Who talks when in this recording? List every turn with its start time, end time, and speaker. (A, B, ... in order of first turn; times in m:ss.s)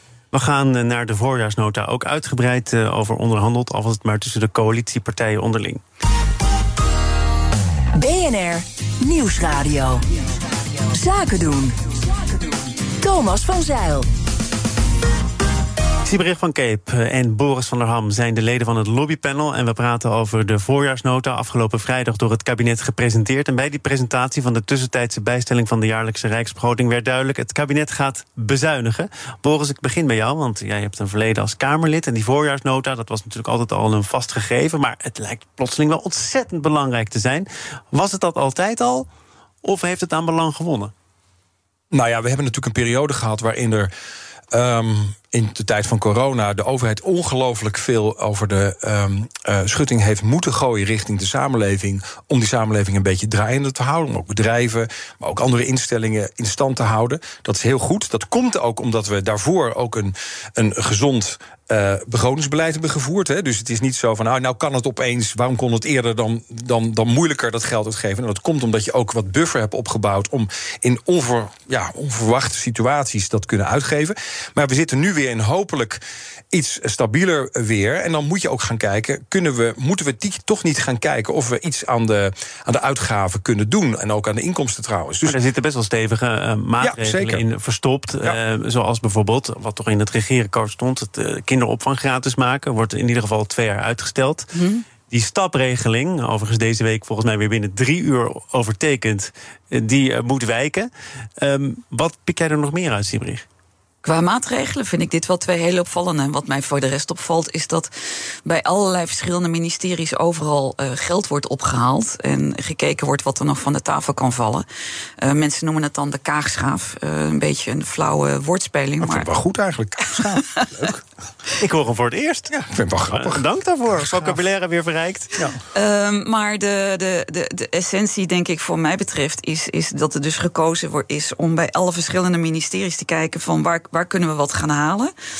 0:00.3-0:05.8 A
0:07.9-0:10.1 B
0:10.9-0:14.1 B
0:16.0-0:39.1 A
0:39.6-0:40.9 A
0:41.9-0:43.9 C
0:44.5-1:16.0 C
1:16.5-1:25.4 C
1:25.2-1:34.5 A
1:26.8-1:27.4 C
1:34.5-1:34.8 D
1:35.1-1:40.9 A
1:41.4-1:43.4 A
1:44.0-1:47.9 D
1:48.4-1:54.6 D
1:55.2-1:59.3 D
1:59.0-2:01.0 C
2:00.1-2:00.7 D
2:01.6-2:02.5 A
2:02.5-2:03.4 C
2:03.1-2:05.4 A
2:04.0-2:04.4 C
2:05.7-2:15.1 D